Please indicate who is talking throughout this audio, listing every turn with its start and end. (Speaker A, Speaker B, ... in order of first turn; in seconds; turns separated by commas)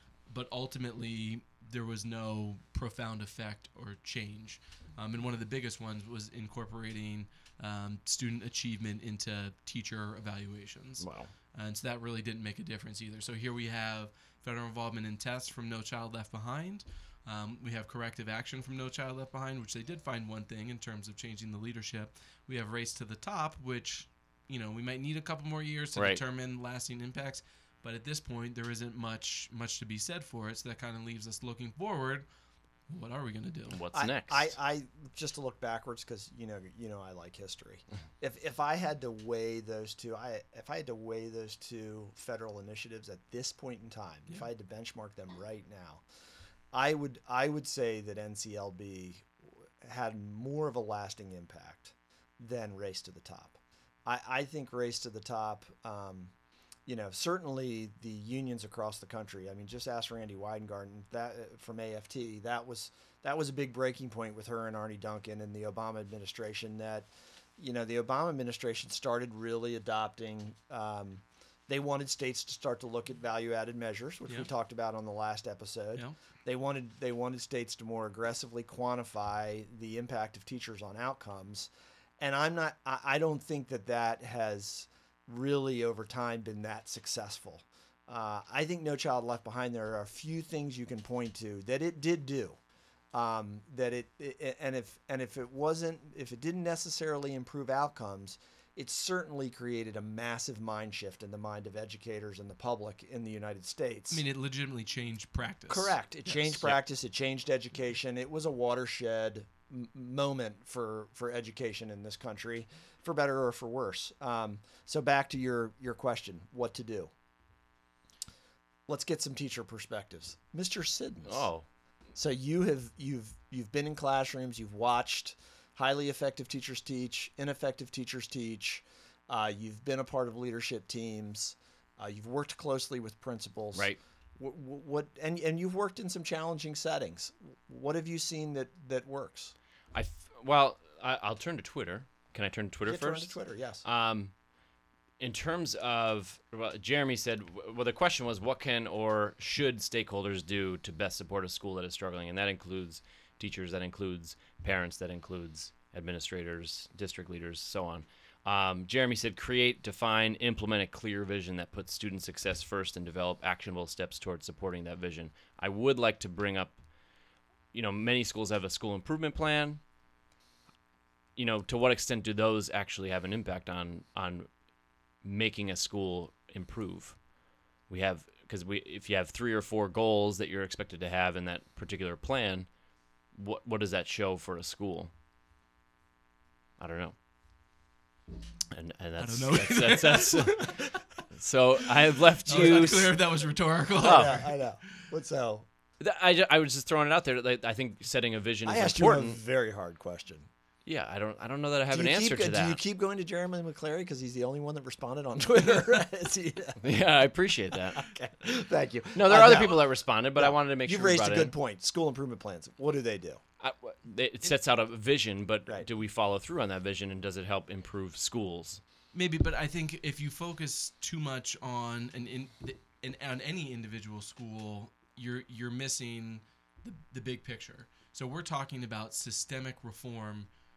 Speaker A: 0.3-32.3, Speaker B: 11.0-11.3, Speaker B: 26.0-26.2, Speaker A: 32.9-33.8, Speaker B: 33.7-34.5, Speaker C: 33.9-46.0, Speaker C: 46.7-56.3, Speaker C: 56.9-92.6, Speaker C: 93.1-104.2, Speaker A: 104.1-106.6, Speaker C: 105.7-117.1, Speaker C: 118.9-121.5, Speaker B: 121.2-121.7, Speaker C: 122.2-139.5, Speaker B: 139.9-144.3, Speaker C: 142.8-143.8, Speaker B: 145.2-166.8, Speaker B: 167.7-169.8, Speaker B: 171.4-174.5, Speaker B: 175.2-177.2, Speaker B: 177.9-182.7, Speaker B: 183.3-185.1, Speaker B: 186.8-187.2, Speaker B: 188.7-193.2, Speaker A: 189.2-190.8, Speaker A: 192.5-195.0, Speaker C: 192.5-193.1, Speaker B: 194.0-194.4, Speaker C: 194.0-195.7, Speaker B: 196.0-199.4, Speaker C: 198.7-200.5, Speaker B: 200.9-202.8, Speaker C: 201.9-206.8, Speaker B: 206.8-208.0, Speaker C: 207.9-213.4, Speaker B: 209.2-211.5, Speaker B: 213.6-218.8, Speaker A: 219.1-230.5